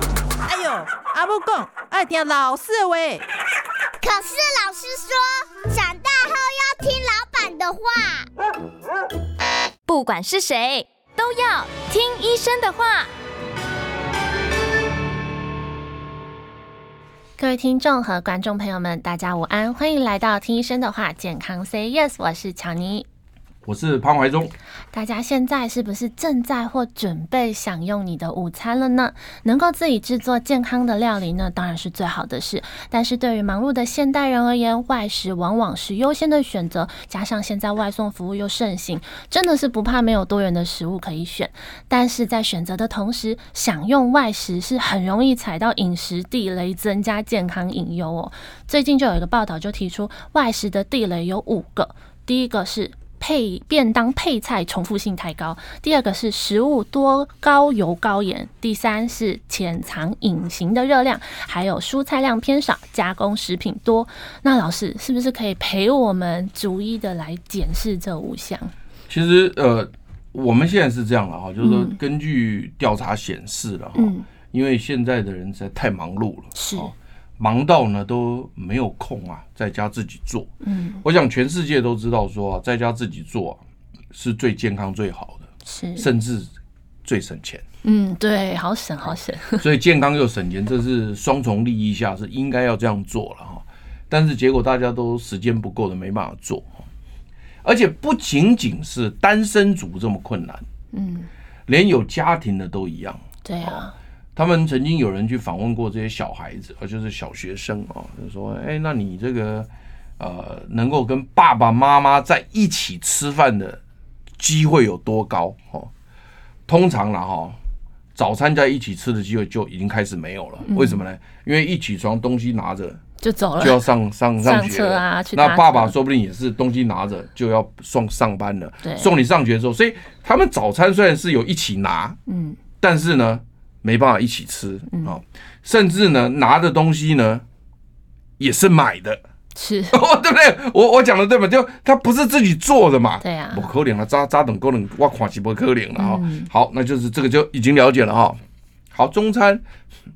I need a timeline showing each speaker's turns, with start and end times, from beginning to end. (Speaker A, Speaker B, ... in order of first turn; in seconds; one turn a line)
Speaker A: 0.5-3.2
Speaker B: 4.0-8.3
Speaker C: 9.9-13.1
Speaker D: 17.4-23.1
Speaker E: 23.6-24.5
Speaker D: 24.9-68.7
Speaker E: 69.1-80.5
Speaker D: 71.6-72.0
Speaker D: 74.0-74.3
Speaker D: 76.5-76.9
Speaker D: 80.6-81.0
Speaker E: 81.0-83.6
Speaker E: 84.1-85.5
Speaker D: 85.7-86.1
Speaker E: 86.0-86.5
Speaker E: 87.0-87.6
Speaker D: 87.8-89.7
Speaker E: 89.6-96.8
Speaker E: 97.6-100.7
Speaker D: 100.9-101.3
Speaker E: 101.7-103.8
Speaker D: 103.5-103.9
Speaker E: 104.4-113.8
Speaker E: 114.4-115.9
Speaker E: 116.7-117.6
Speaker E: 118.2-123.0
Speaker D: 120.7-121.0
Speaker D: 123.2-123.8
Speaker E: 123.6-132.2
Speaker D: 124.4-126.0
Speaker D: 128.8-129.2
Speaker D: 132.3-132.6
Speaker E: 132.8-137.4
Speaker E: 138.4-139.2
Speaker D: 139.6-140.0
Speaker E: 139.9-148.4
Speaker D: 143.2-143.7
Speaker D: 146.0-146.5
Speaker E: 148.9-149.6